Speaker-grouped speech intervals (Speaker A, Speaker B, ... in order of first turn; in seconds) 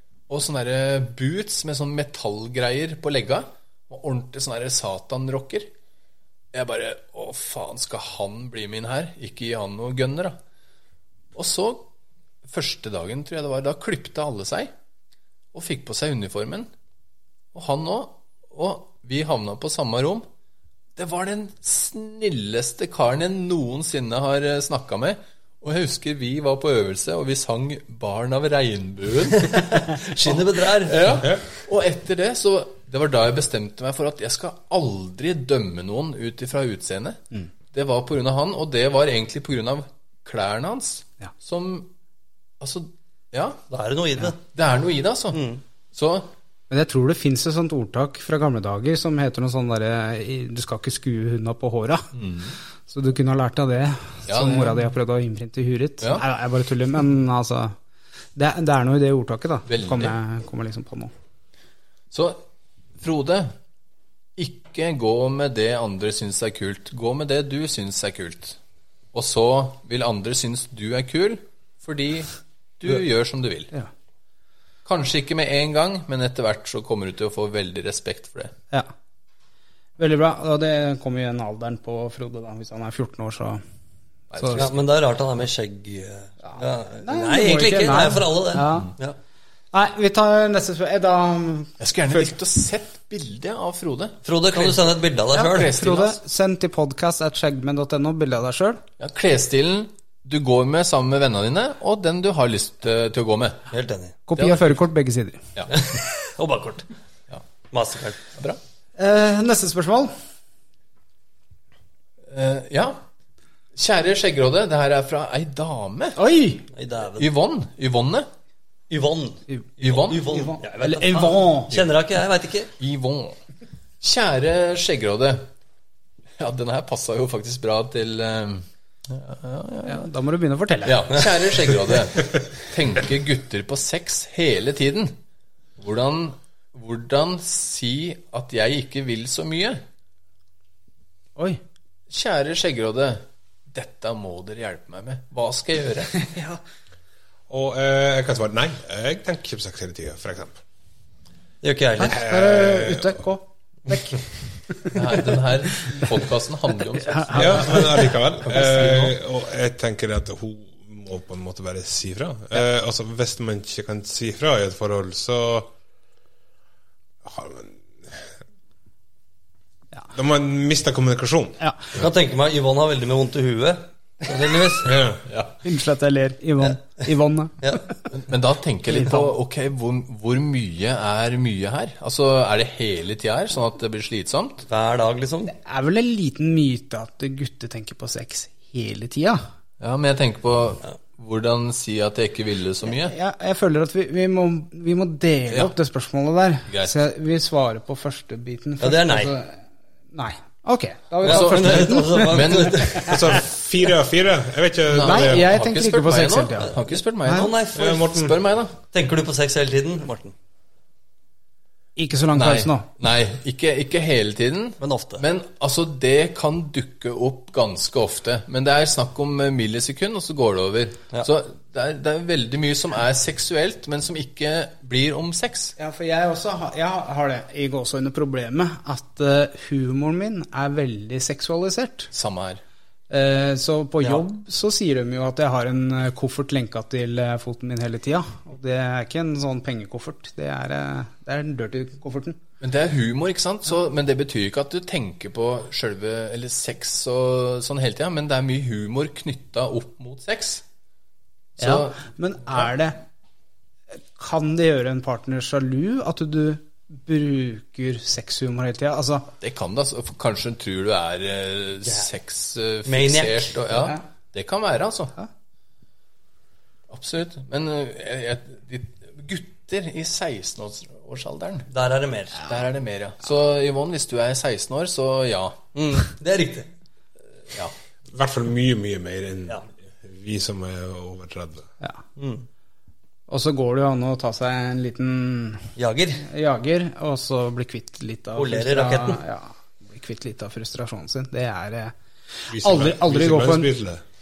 Speaker A: 0.3-5.7, 6.5-10.4, 11.3-11.9, 12.4-14.7, 15.5-16.7, 17.5-20.3, 20.9-41.9, 42.6-43.6, 44.5-45.4, 45.9-46.3, 52.1-52.6, 54.3-54.8, 59.7-60.1, 62.1-62.4, 63.0-63.5, 64.4-68.6, 69.1-73.7, 74.8-78.5, 84.3-84.8, 91.8-96.2, 99.0-103.7, 104.4-104.8, 105.5-105.9, 112.3-113.0, 113.8-116.2, 117.2-118.3, 119.8-120.3, 122.8-123.4, 124.0-125.5, 126.4-130.1, 130.8-135.2, 135.8-139.8, 142.1-146.1, 154.9-159.1, 175.3-175.6, 178.1-184.6, 189.8-193.1, 196.7-196.9, 201.2-203.1, 204.9-208.7, 212.3-225.7, 232.1-232.6, 242.6-250.6, 251.6-252.1, 259.4-265.1, 266.9-271.7, 272.4-275.6
Speaker B: 29.5-31.2, 43.7-44.4, 45.3-45.6, 84.5-89.2, 94.2-95.8, 103.7-104.2, 105.7-106.9, 107.7-108.3, 116.7-117.3, 118.9-122.7, 151.6-152.2, 171.9-175.0, 184.7-185.5, 198.8-199.3, 201.2-203.4, 207.3-210.3, 214.8-215.2, 262.9-263.6, 271.7-272.4, 275.7-276.7, 282.2-282.5, 285.8-286.2, 288.4-289.2
Speaker C: 46.7-52.1, 52.9-57.7, 58.4-61.1, 80.0-83.6, 84.3-84.6, 86.4-88.9, 89.7-92.3, 95.3-98.8, 104.3-105.4, 109.0-110.1, 116.2-116.6, 120.3-121.7, 129.8-131.2, 146.2-146.6, 152.0-155.2, 157.0-158.1, 175.6-177.8, 185.5-189.4, 193.0-199.6, 200.1-203.1, 205.0-206.7, 212.0-212.9, 225.8-232.1, 233.1-242.4, 251.6-253.0, 254.1-259.3, 283.3-291.9, 292.5-293.7
Speaker D: 147.5-150.6, 152.1-153.2, 157.3-165.7, 167.2-168.3, 170.1-172.1, 174.8-175.2, 203.1-205.5, 207.7-208.4, 278.1-281.6, 292.5-294.0